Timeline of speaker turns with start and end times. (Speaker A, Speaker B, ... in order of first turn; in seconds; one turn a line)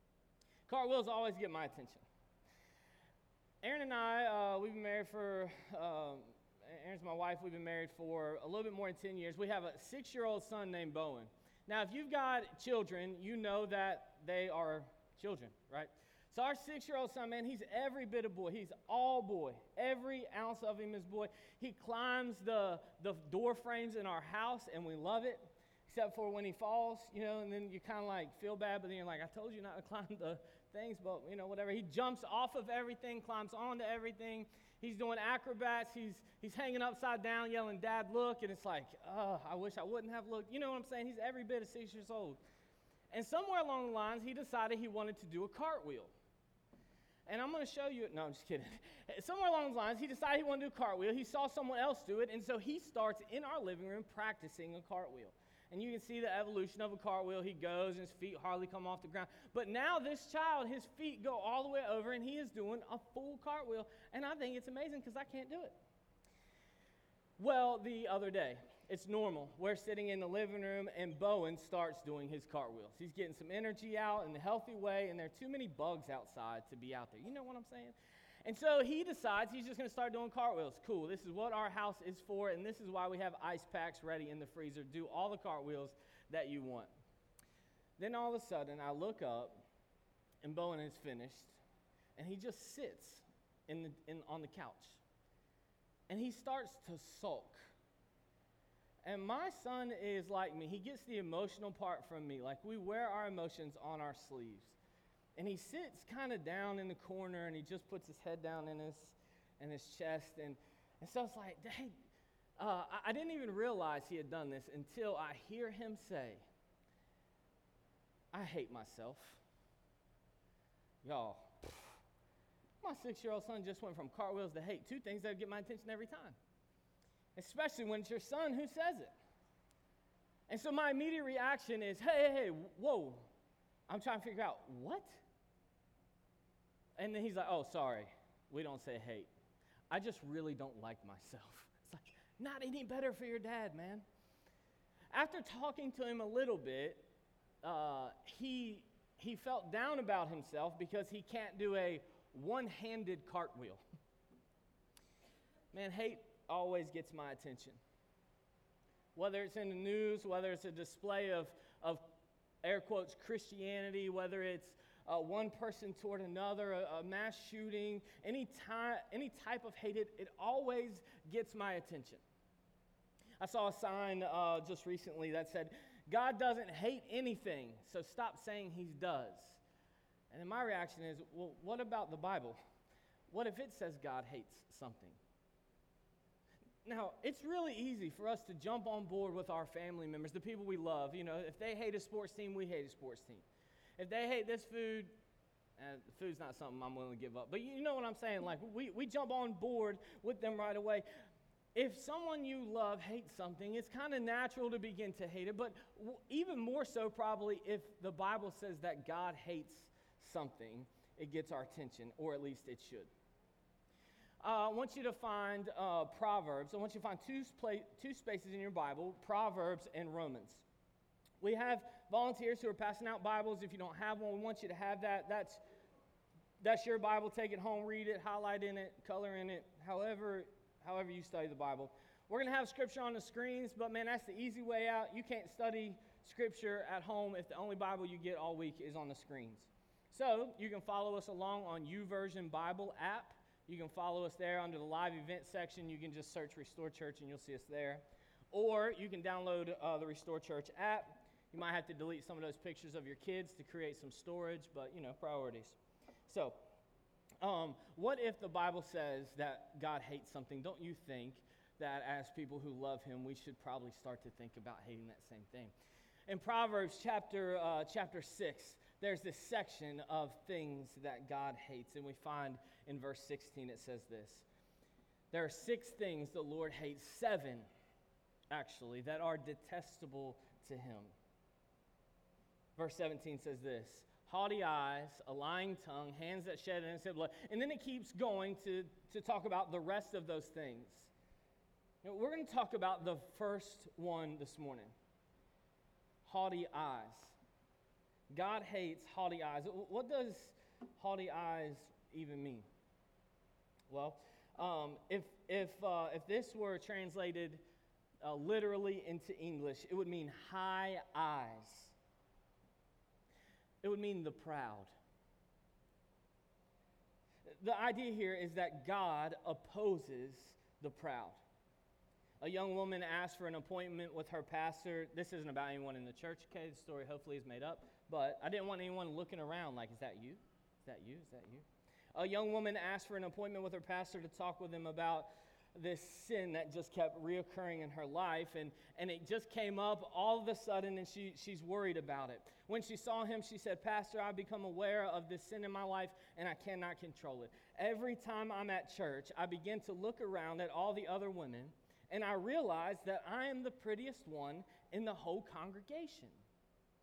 Speaker A: 0.7-2.0
Speaker A: 3.6-42.4
Speaker A: 43.1-46.1
Speaker A: 47.3-65.8
Speaker A: 67.4-86.9
Speaker A: 88.0-89.6
Speaker A: 90.4-91.6
Speaker A: 92.2-95.0
Speaker A: 96.1-97.7
Speaker A: 99.0-104.8
Speaker A: 105.3-112.0
Speaker A: 112.6-116.5
Speaker A: 118.3-119.4
Speaker A: 121.0-122.0
Speaker A: 122.8-126.4
Speaker A: 127.3-129.1
Speaker A: 130.5-133.3
Speaker A: 133.9-135.2
Speaker A: 137.0-139.3
Speaker A: 139.9-144.0
Speaker A: 145.1-147.1
Speaker A: 147.6-153.8
Speaker A: 155.7-157.8
Speaker A: 159.1-162.0
Speaker A: 162.6-172.2
Speaker A: 173.4-179.6
Speaker A: 180.3-182.6
Speaker A: 183.3-185.2
Speaker A: 186.8-193.4
Speaker A: 194.0-195.2
Speaker A: 195.8-201.1
Speaker A: 201.7-213.1
Speaker A: 214.4-220.6
Speaker A: 221.4-225.6
Speaker A: 226.6-255.8
Speaker A: 256.3-256.6
Speaker A: 257.4-265.7
Speaker A: 266.3-274.5
Speaker A: 275.3-277.7
Speaker A: 278.5-281.1
Speaker A: 282.8-291.1
Speaker A: 292.0-294.9
Speaker A: 296.2-297.4
Speaker A: 298.3-302.7
Speaker A: 303.9-307.6
Speaker A: 308.2-311.9
Speaker A: 313.8-314.9
Speaker A: 317.4-321.4
Speaker A: 322.4-356.4